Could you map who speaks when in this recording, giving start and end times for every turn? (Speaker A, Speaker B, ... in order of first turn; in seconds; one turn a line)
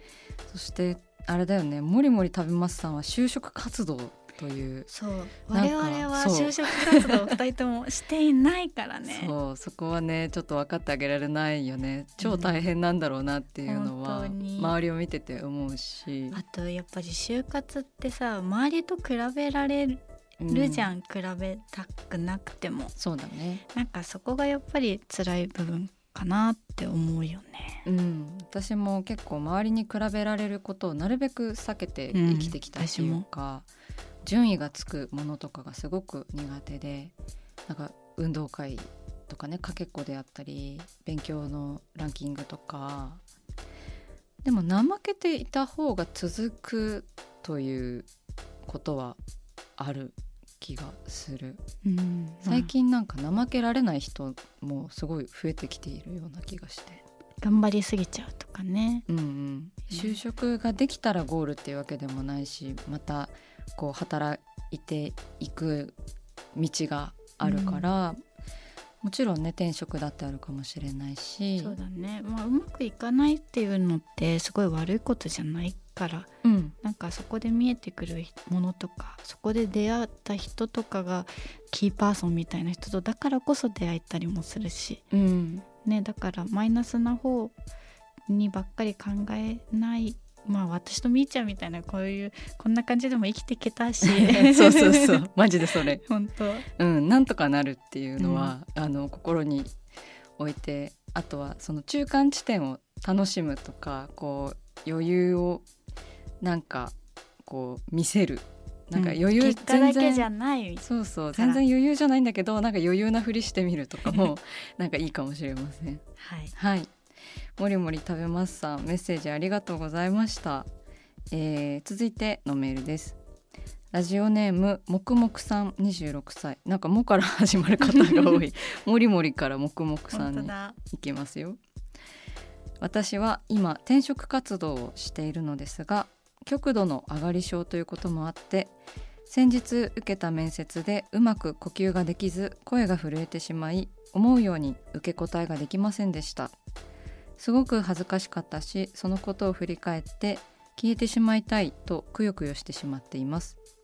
Speaker A: 0.5-4.9
Speaker B: 4.9-9.3
Speaker A: 5.5-7.3
Speaker A: 9.1-16.4
Speaker B: 12.2-12.6
Speaker B: 13.7-14.7
Speaker B: 16.3-22.9
Speaker A: 20.4-20.9
Speaker A: 23.0-23.6
Speaker B: 23.7-27.9
Speaker A: 27.9-33.7
Speaker B: 32.1-33.2
Speaker A: 34.2-37.1
Speaker A: 37.7-43.2
Speaker A: 44.4-48.1
Speaker A: 48.6-49.2
Speaker A: 49.8-51.6
Speaker B: 51.8-52.7
Speaker A: 52.4-57.0
Speaker B: 57.4-59.0
Speaker A: 59.1-66.0
Speaker B: 59.9-60.1
Speaker A: 66.5-68.2
Speaker B: 67.4-67.9
Speaker A: 69.0-71.8
Speaker B: 71.6-76.3
Speaker A: 76.4-76.8
Speaker B: 76.8-85.0
Speaker A: 85.1-85.7
Speaker B: 85.8-87.5
Speaker B: 88.3-95.2
Speaker A: 94.0-96.0
Speaker B: 95.9-96.7
Speaker A: 96.8-99.7
Speaker B: 98.2-98.5
Speaker A: 100.4-105.7
Speaker A: 106.4-110.3
Speaker B: 108.9-111.6
Speaker A: 110.8-116.0
Speaker B: 116.2-116.5
Speaker A: 116.5-116.9
Speaker A: 117.6-120.7
Speaker A: 121.3-123.2
Speaker A: 123.9-131.6
Speaker B: 130.1-130.8
Speaker A: 132.8-138.7
Speaker A: 139.3-146.6
Speaker A: 147.4-153.6